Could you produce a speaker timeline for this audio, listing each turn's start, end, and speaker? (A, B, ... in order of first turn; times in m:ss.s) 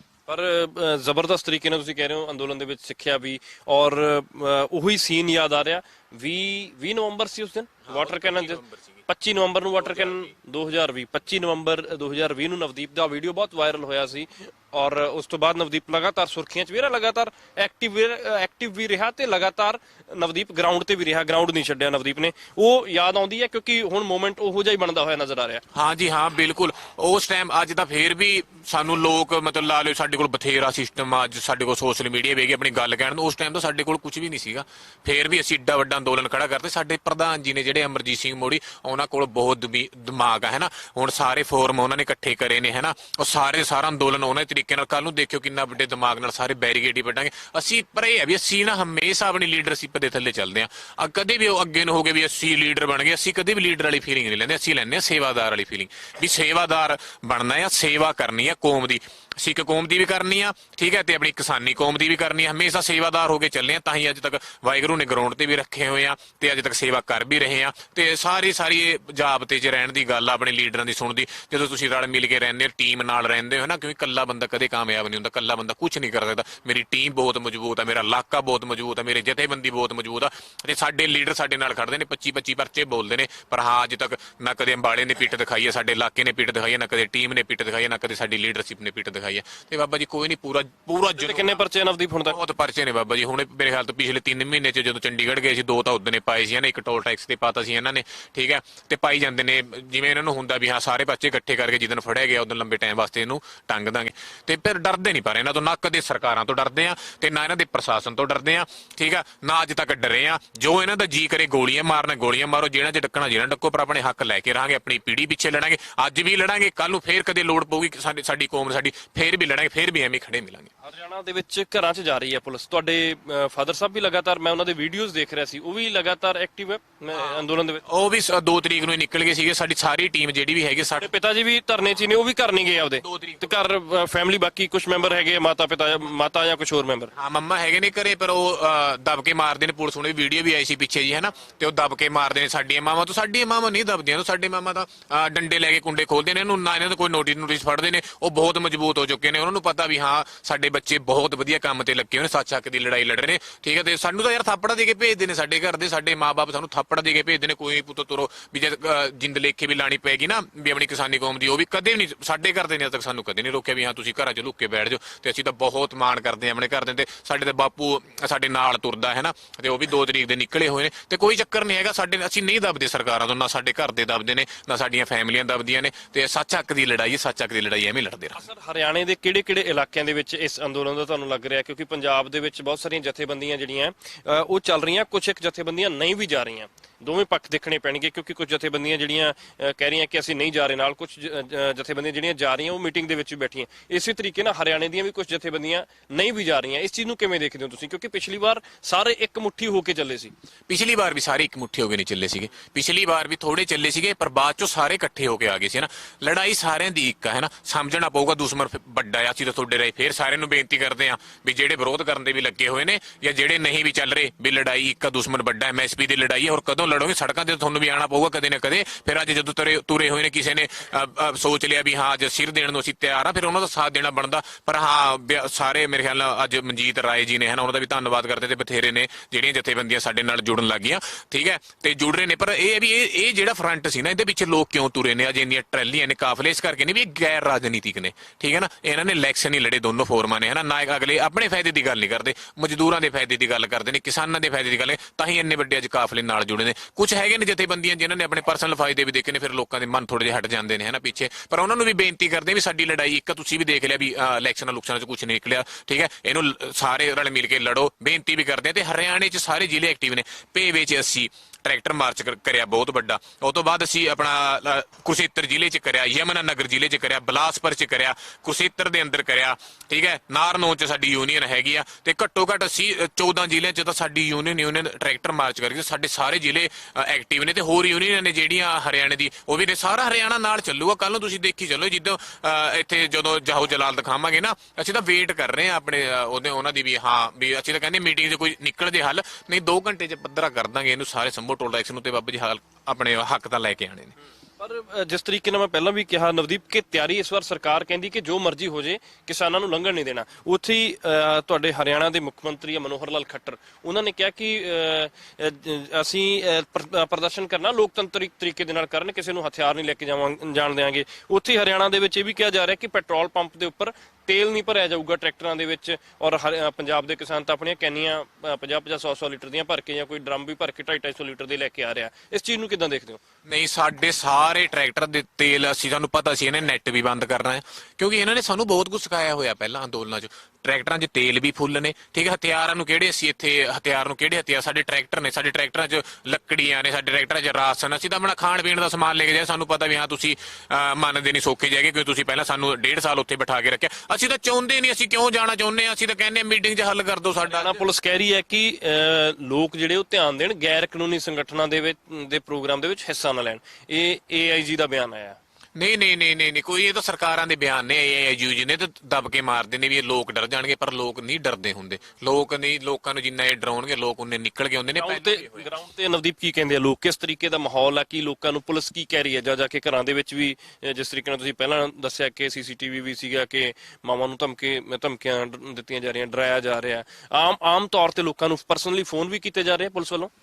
0:00.3-0:25.6 A
0:07.9-0:08.9 B
0:09.8-0:10.3 B
0:25.7-1:31.6 B
1:31.2-1:32.4 A
1:32.2-2:00.7 B
2:00.8-2:07.8 A
2:07.1-2:11.1 B
2:11.0-2:17.1 A
2:13.0-2:13.5 B
2:17.2-2:58.4 B
2:58.4-3:20.3 A
3:20.7-4:54.1 B
4:54.6-5:23.2 A
5:23.4-5:47.8 B
5:47.5-5:55.4 A
5:55.8-6:05.7 B
6:04.9-6:20.3 A